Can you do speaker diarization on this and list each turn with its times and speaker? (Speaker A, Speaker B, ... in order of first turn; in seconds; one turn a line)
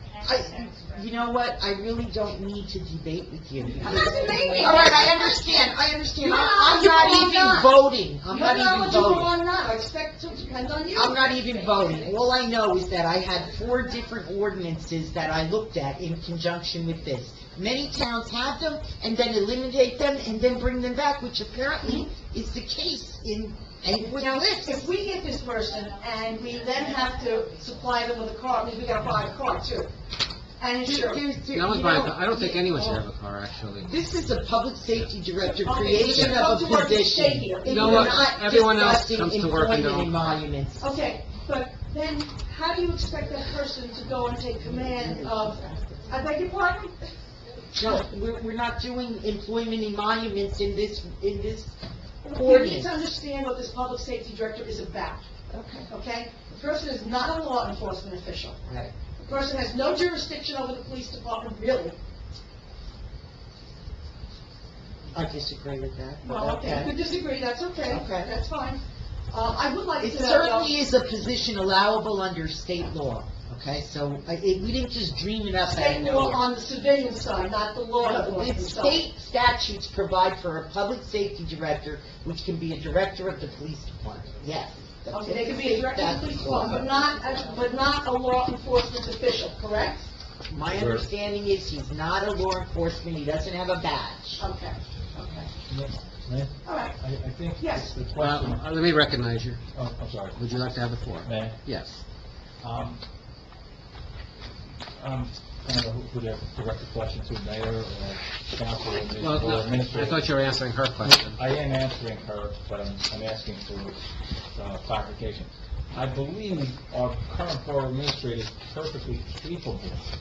Speaker A: 0.2-9.3
Speaker B: 3.8-5.2
Speaker B: 6.2-7.8
Speaker B: 8.3-11.4
Speaker A: 10.9-24.9
Speaker B: 24.0-29.9
Speaker B: 30.6-31.2
Speaker A: 30.8-33.0
Speaker C: 31.5-33.9
Speaker A: 33.8-40.9
Speaker B: 35.4-38.2
Speaker C: 37.6-40.4
Speaker B: 40.8-46.9
Speaker A: 47.7-51.8
Speaker B: 52.2-55.2
Speaker A: 52.3-53.0
Speaker A: 55.5-55.9
Speaker B: 55.9-58.6
Speaker A: 58.6-58.9
Speaker B: 59.2-62.0
Speaker A: 65.1-66.9
Speaker B: 66.2-70.7
Speaker A: 67.9-68.3
Speaker A: 70.0-76.4
Speaker B: 75.7-79.0
Speaker A: 78.0-86.9
Speaker B: 85.1-90.1
Speaker A: 90.5-94.4
Speaker D: 90.7-91.1
Speaker B: 94.4-95.5
Speaker D: 95.7-98.6
Speaker B: 96.6-97.0
Speaker B: 97.6-97.9
Speaker C: 98.1-99.6
Speaker D: 99.7-100.4
Speaker C: 100.4-102.0
Speaker D: 101.2-101.6
Speaker D: 102.6-103.0
Speaker D: 105.0-110.3
Speaker C: 109.2-111.4
Speaker D: 111.0-114.0
Speaker D: 114.5-120.0